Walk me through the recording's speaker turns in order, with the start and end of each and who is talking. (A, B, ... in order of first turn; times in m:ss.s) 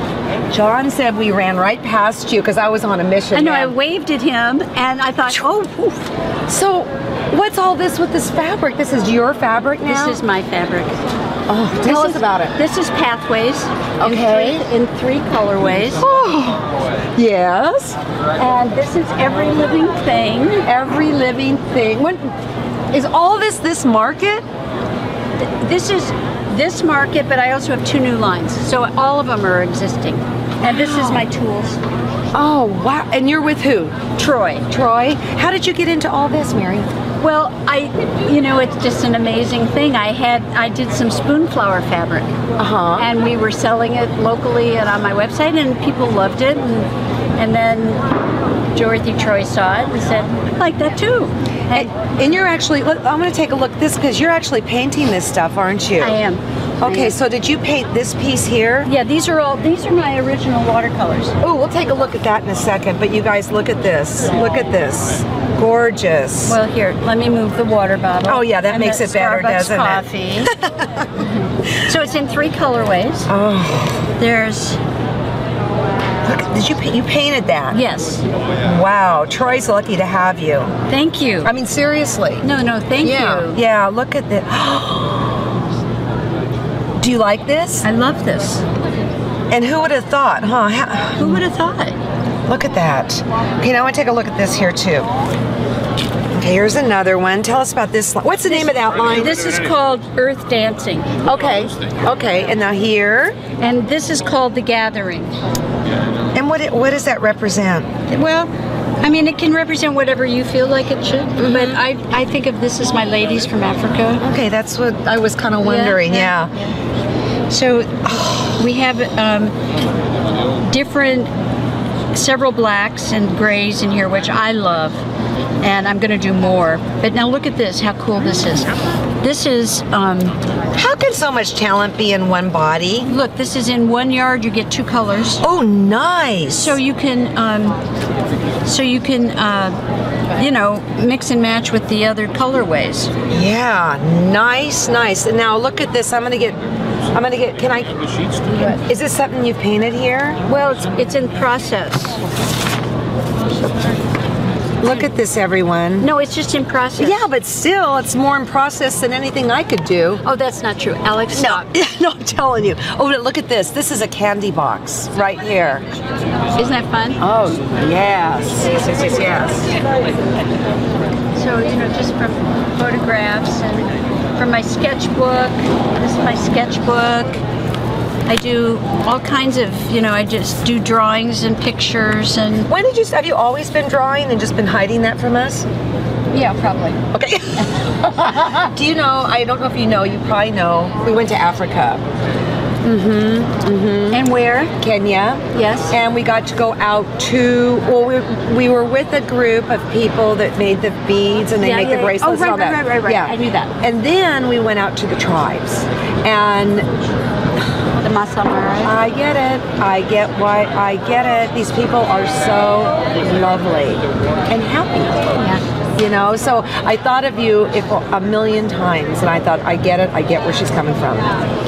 0:00.5-0:03.7 A
0:03.3-0:06.1 B
0:06.5-0:10.2 A
0:09.8-0:11.0 B
0:11.5-0:12.6 A
0:11.8-0:16.1 B
0:14.0-0:14.6 A
0:16.0-0:16.6 A
0:17.2-0:18.0 A
0:18.4-0:20.7 B
0:20.6-0:22.3 A
0:22.9-0:24.4 A
0:25.4-0:31.8 B
0:30.6-0:31.3 A
0:32.3-0:34.0 A
0:34.2-0:34.7 B
0:34.7-0:36.9 A
0:37.2-0:42.3 B
0:42.6-0:43.1 A
0:43.0-0:48.0 B
0:48.8-0:52.0 B
0:51.7-0:56.2 A
0:56.0-0:57.2 B
0:56.8-0:58.9 A
0:58.8-1:01.4 B
1:01.4-1:06.6 A
1:06.4-1:10.5 B
1:08.2-1:11.1 A
1:11.2-1:13.3 B
1:13.3-1:14.1 A
1:14.2-1:14.8 B
1:16.2-1:17.8 A
1:17.7-1:18.2 B
1:18.6-1:20.7 A
1:20.9-1:21.5 B
1:21.4-1:22.5 A
1:22.4-1:23.6 B
1:23.0-1:25.5 A
1:27.0-1:27.9 A
1:27.8-1:28.6 B
1:29.5-1:31.5 A
1:31.2-1:32.0 B
1:32.5-1:35.1 A
1:36.3-1:39.4 A
1:38.5-1:41.1 B
1:41.2-1:43.4 A
1:43.6-1:45.3 B
1:46.4-1:47.9 A
1:48.1-1:48.5 B
1:49.0-1:54.2 B
1:51.4-1:51.8 A
1:54.2-1:56.5 A
1:55.6-1:56.7 B
1:57.5-1:59.5 B
2:00.6-2:01.3 B
2:02.1-2:05.0 B
2:05.6-2:10.4 B
2:10.7-2:13.1 A
2:13.1-2:15.4 B
2:15.4-2:16.8 A
2:16.5-2:17.8 B
2:18.6-2:19.8 B
2:20.4-2:23.1 B
2:23.3-2:26.6 A
2:27.1-2:30.4 A
2:28.5-2:28.8 B
2:30.5-2:32.2 B
2:33.6-2:34.0 B
2:34.8-2:36.1 A
2:36.0-2:37.3 B
2:37.0-2:40.2 A
2:40.2-2:41.7 B
2:41.3-2:45.9 A
2:46.6-2:47.2 B
2:47.2-2:49.8 A
2:51.4-2:57.4 B
2:58.3-3:02.7 B
3:02.7-3:05.7 A
3:06.3-3:07.0 B
3:07.1-3:12.0 A
3:12.8-3:13.6 B
3:13.6-3:14.2 A
3:14.1-3:14.7 B
3:14.8-3:26.9 A
3:15.5-3:16.0 B
3:21.6-3:23.7 B
3:28.0-3:29.0 B
3:28.8-3:35.2 A
3:35.3-3:35.6 B
3:36.0-3:41.3 A